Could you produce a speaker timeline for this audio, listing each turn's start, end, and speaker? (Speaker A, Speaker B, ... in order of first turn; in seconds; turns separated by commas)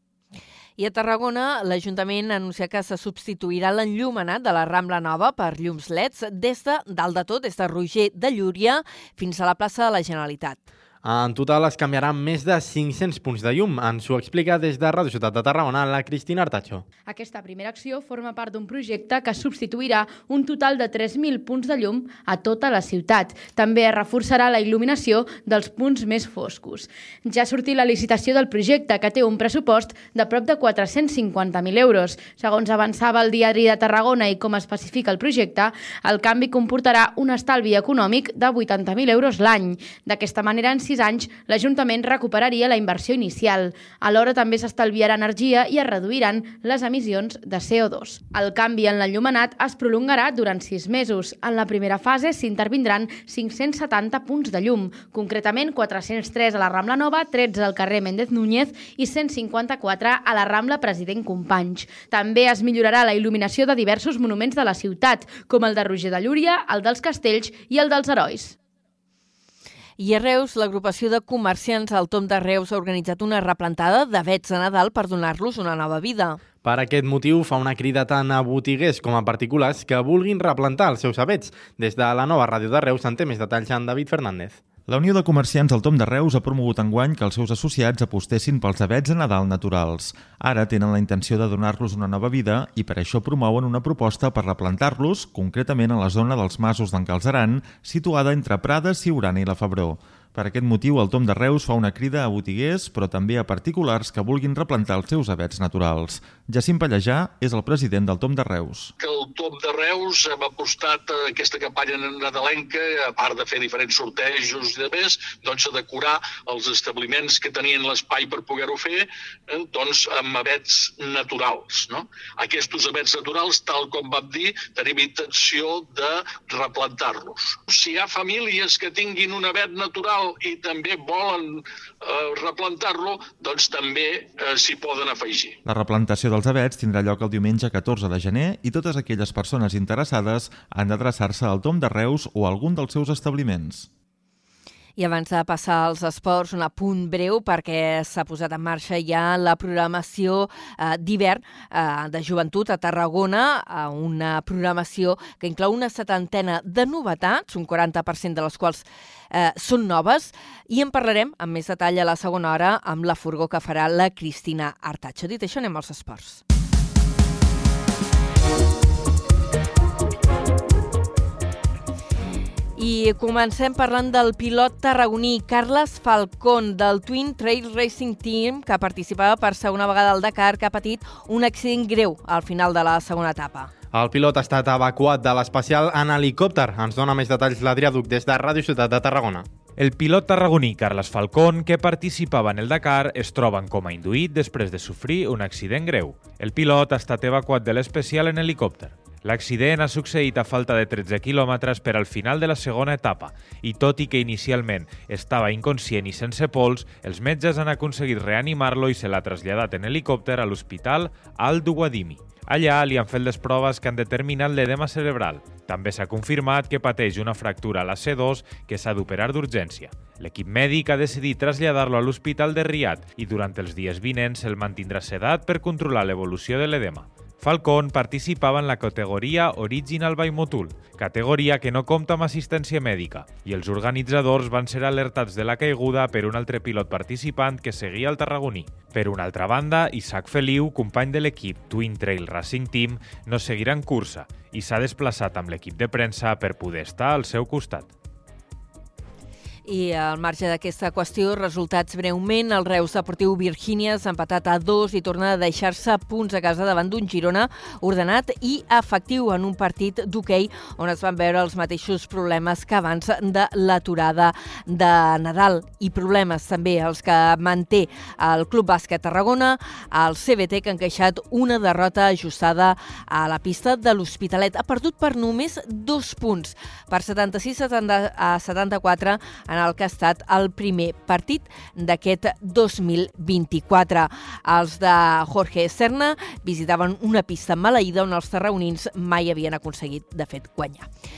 Speaker A: 0.8-10.6, Speaker B: 11.0-16.8, Speaker C: 17.1-68.6, Speaker A: 70.0-76.4, Speaker B: 76.6-84.6, Speaker D: 84.9-108.9, Speaker E: 109.0-135.6, Speaker D: 135.7-143.9, Speaker A: 145.0-166.4, Speaker A: 172.8-183.7, Speaker B: 183.9-189.4, Speaker F: 189.8-247.9, Speaker A: 249.7-290.9